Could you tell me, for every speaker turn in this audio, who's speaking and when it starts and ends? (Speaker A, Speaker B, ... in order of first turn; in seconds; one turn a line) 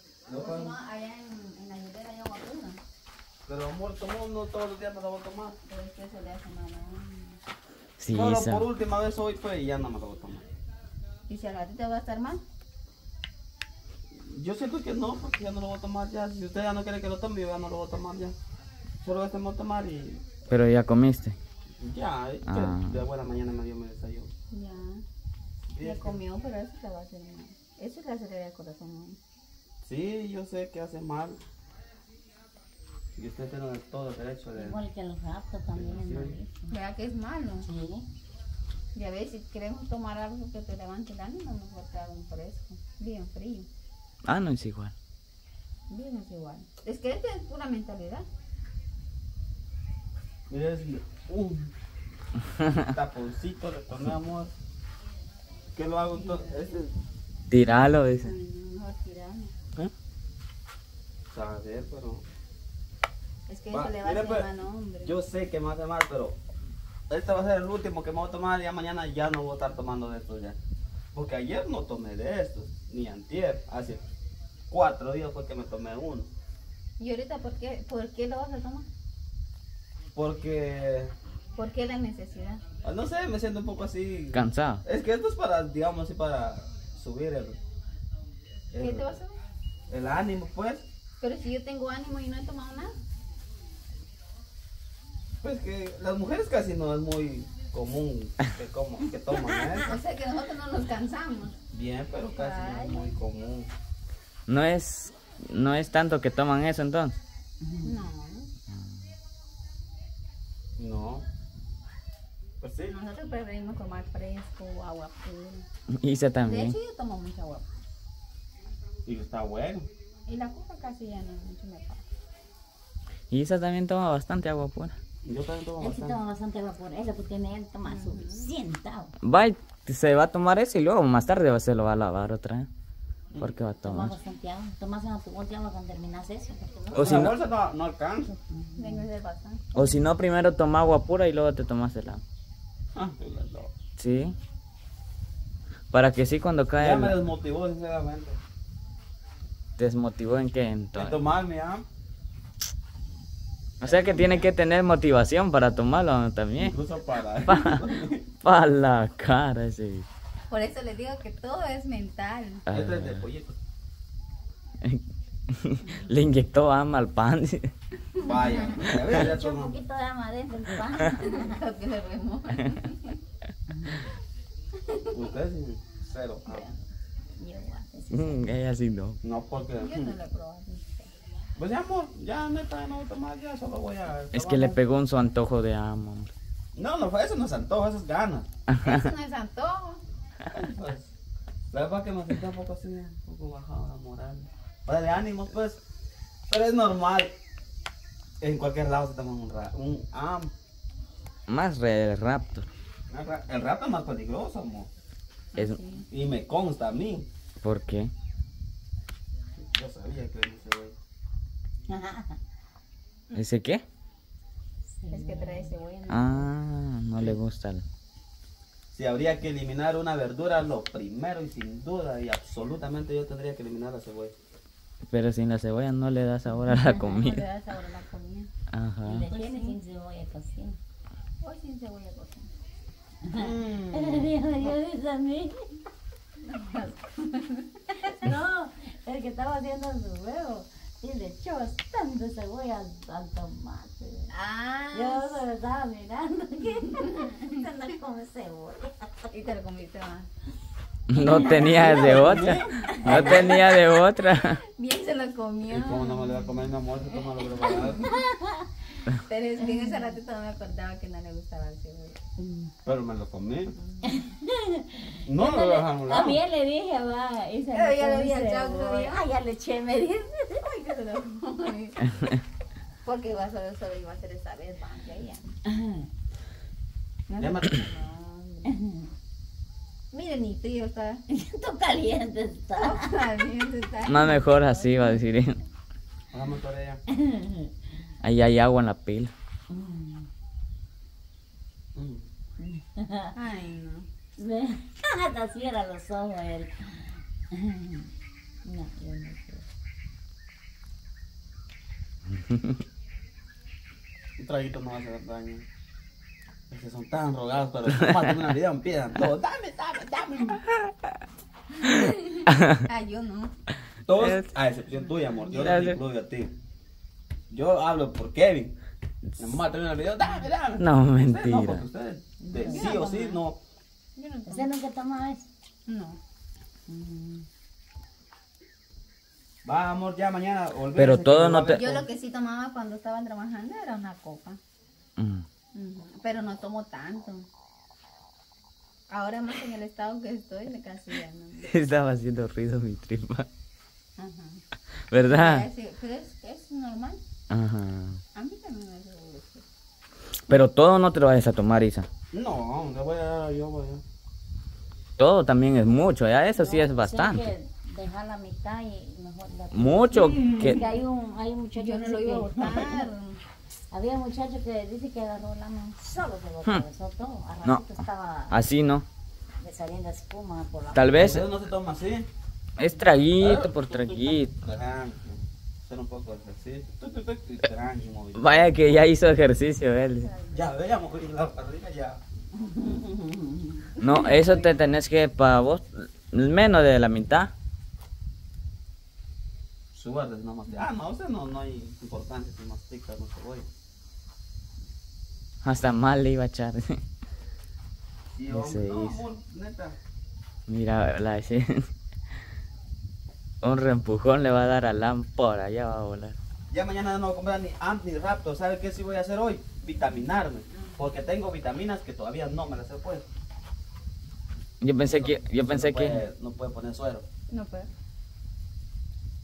Speaker A: 0.3-0.8
Speaker B: 0.3-2.8
Speaker A: 3.5-5.6
Speaker B: 5.7-7.4
Speaker C: 8.0-8.7
Speaker A: 8.1-10.4
Speaker B: 11.3-12.4
Speaker A: 14.1-18.4
Speaker A: 19.0-20.3
Speaker C: 20.5-21.4
Speaker A: 21.8-24.3
Speaker C: 22.4-22.9
Speaker B: 24.5-25.0
Speaker A: 25.7-26.2
Speaker B: 25.8-29.2
Speaker A: 29.8-31.4
Speaker A: 33.2-34.8
Speaker D: 34.5-36.7
Speaker A: 35.7-36.4
Speaker B: 36.7-37.7
Speaker D: 37.6-38.1
Speaker B: 39.0-43.7
Speaker C: 44.2-44.9
Speaker B: 45.9-48.2
Speaker A: 50.5-51.7
Speaker A: 52.9-54.5
Speaker A: 55.8-56.9
Speaker B: 56.1-56.7
Speaker C: 57.5-58.4
Speaker B: 58.2-59.5
Speaker A: 61.3-62.2
Speaker B: 63.5-65.1
Speaker A: 63.7-64.5
Speaker A: 65.0-66.4
Speaker A: 67.1-70.6
Speaker A: 71.1-74.0
Speaker A: 74.7-76.3
Speaker B: 77.0-78.9
Speaker A: 80.2-81.1
Speaker B: 81.6-82.6
Speaker A: 82.8-87.6
Speaker C: 84.3-84.8
Speaker A: 88.7-89.1
Speaker B: 88.8-89.4
Speaker A: 89.9-90.8
Speaker B: 91.2-93.0
Speaker A: 95.4-99.9
Speaker B: 99.8-101.6
Speaker A: 101.7-103.7
Speaker B: 102.1-103.2
Speaker C: 104.5-107.2
Speaker D: 107.6-107.9
Speaker B: 107.8-108.5
Speaker A: 110.8-111.2
Speaker A: 112.6-113.0
Speaker B: 112.9-115.7
Speaker C: 115.9-116.8
Speaker B: 116.5-117.6
Speaker A: 119.1-119.9
Speaker B: 120.3-122.0
Speaker C: 123.3-125.0
Speaker A: 125.2-126.2
Speaker D: 125.8-129.1
Speaker B: 127.8-128.5
Speaker C: 129.2-132.7
Speaker C: 133.4-134.1
Speaker D: 133.8-137.1
Speaker A: 136.9-138.3
Speaker C: 136.9-137.3
Speaker D: 138.4-139.0
Speaker B: 138.8-139.7
Speaker C: 139.7-142.2
Speaker A: 142.9-143.7
Speaker C: 144.0-144.3
Speaker C: 145.9-147.2
Speaker A: 146.8-148.4
Speaker C: 149.8-151.2
Speaker A: 150.9-151.8
Speaker A: 153.8-154.5
Speaker C: 153.8-156.8
Speaker A: 156.6-158.2
Speaker C: 157.5-157.8
Speaker C: 158.4-160.1
Speaker B: 160.5-162.6
Speaker C: 162.7-163.3
Speaker A: 162.7-163.6
Speaker C: 164.8-167.7
Speaker B: 168.2-168.7
Speaker A: 168.2-169.8
Speaker D: 168.4-171.6
Speaker B: 170.9-173.2
Speaker D: 173.7-174.1
Speaker A: 175.1-176.7
Speaker B: 176.5-176.8
Speaker D: 177.4-178.5
Speaker C: 178.1-179.2
Speaker A: 179.2-180.2
Speaker B: 179.8-181.1
Speaker A: 181.6-184.8
Speaker C: 184.3-186.3
Speaker A: 186.8-188.5
Speaker C: 188.7-189.1
Speaker B: 188.8-190.0
Speaker A: 190.5-191.1
Speaker A: 191.7-195.8
Speaker A: 196.5-197.3
Speaker A: 198.4-200.5
Speaker C: 201.5-202.7
Speaker A: 203.1-204.9
Speaker B: 205.6-206.1
Speaker A: 206.1-207.3
Speaker C: 207.6-208.1
Speaker A: 209.6-210.9
Speaker D: 211.9-212.4
Speaker C: 213.3-213.8
Speaker D: 214.9-215.7
Speaker B: 215.1-216.5
Speaker C: 216.1-217.8
Speaker A: 218.9-224.3
Speaker C: 225.1-227.4
Speaker D: 226.6-226.9
Speaker B: 226.9-228.5
Speaker C: 228.7-229.3
Speaker D: 229.1-230.8
Speaker B: 229.3-229.8
Speaker B: 231.4-232.5
Speaker D: 233.2-235.9
Speaker A: 233.3-234.8
Speaker B: 236.5-238.4
Speaker D: 238.1-244.3
Speaker B: 244.3-245.4
Speaker D: 244.9-249.3
Speaker B: 249.3-250.3
Speaker C: 251.1-254.6
Speaker D: 251.2-252.6
Speaker B: 251.4-252.1
Speaker A: 251.7-253.6
Speaker B: 252.8-256.5
Speaker A: 255.7-258.1
Speaker B: 257.1-257.9
Speaker D: 257.8-258.7
Speaker B: 259.2-262.2
Speaker D: 259.6-260.1
Speaker D: 262.4-262.7
Speaker A: 262.9-263.8
Speaker B: 263.9-264.2
Speaker D: 264.1-270.6
Speaker A: 265.2-266.4
Speaker B: 267.7-269.3
Speaker B: 270.6-272.4
Speaker B: 273.1-275.4
Speaker D: 275.7-276.1
Speaker B: 277.3-278.8
Speaker A: 277.4-277.8
Speaker D: 278.7-279.0
Speaker B: 280.1-281.2
Speaker D: 281.3-283.1
Speaker B: 282.8-285.0
Speaker C: 284.1-285.6
Speaker A: 286.3-287.0
Speaker D: 287.1-287.7
Speaker C: 288.2-289.3
Speaker D: 289.7-290.3
Speaker A: 291.9-292.2
Speaker D: 292.6-293.3
Speaker B: 293.3-294.1
Speaker D: 294.4-298.1
Speaker D: 298.6-299.6
Speaker A: 304.4-305.7
Speaker A: 306.7-310.6
Speaker B: 311.8-313.5
Speaker C: 312.5-312.8
Speaker A: 314.0-316.5
Speaker C: 314.2-314.5
Speaker C: 315.5-316.0
Speaker A: 317.5-318.7
Speaker A: 319.4-323.6
Speaker C: 320.8-321.8
Speaker D: 322.4-322.9
Speaker B: 322.7-323.4
Speaker B: 324.2-324.7
Speaker D: 324.5-325.5
Speaker B: 325.9-326.2
Speaker D: 326.9-327.4
Speaker A: 329.6-332.1
Speaker C: 330.9-331.9
Speaker B: 331.7-334.6
Speaker C: 335.2-335.5
Speaker B: 335.8-337.5
Speaker B: 339.1-341.7
Speaker C: 341.6-343.5
Speaker B: 344.2-344.6
Speaker C: 345.1-345.7
Speaker B: 345.2-347.2
Speaker C: 347.5-348.2
Speaker B: 348.4-349.6
Speaker C: 350.5-352.1
Speaker A: 352.3-354.0
Speaker C: 355.2-357.5
Speaker D: 356.6-363.1
Speaker C: 359.7-360.9
Speaker B: 360.3-360.8
Speaker B: 361.8-363.4
Speaker D: 363.9-368.6
Speaker C: 368.5-369.1
Speaker D: 369.6-371.2
Speaker C: 370.9-371.5
Speaker A: 371.1-372.3
Speaker C: 372.8-374.5
Speaker A: 373.4-379.0
Speaker C: 378.4-380.3
Speaker B: 380.2-380.6
Speaker A: 380.5-382.2
Speaker D: 382.8-383.8
Speaker C: 384.0-387.5
Speaker B: 384.0-384.5
Speaker A: 389.9-393.7
Speaker C: 395.6-397.0
Speaker A: 398.4-400.0
Speaker C: 398.5-399.2
Speaker C: 400.7-401.9
Speaker C: 403.6-406.4
Speaker A: 406.7-413.2
Speaker C: 414.8-416.2
Speaker A: 415.1-417.3
Speaker B: 417.5-417.9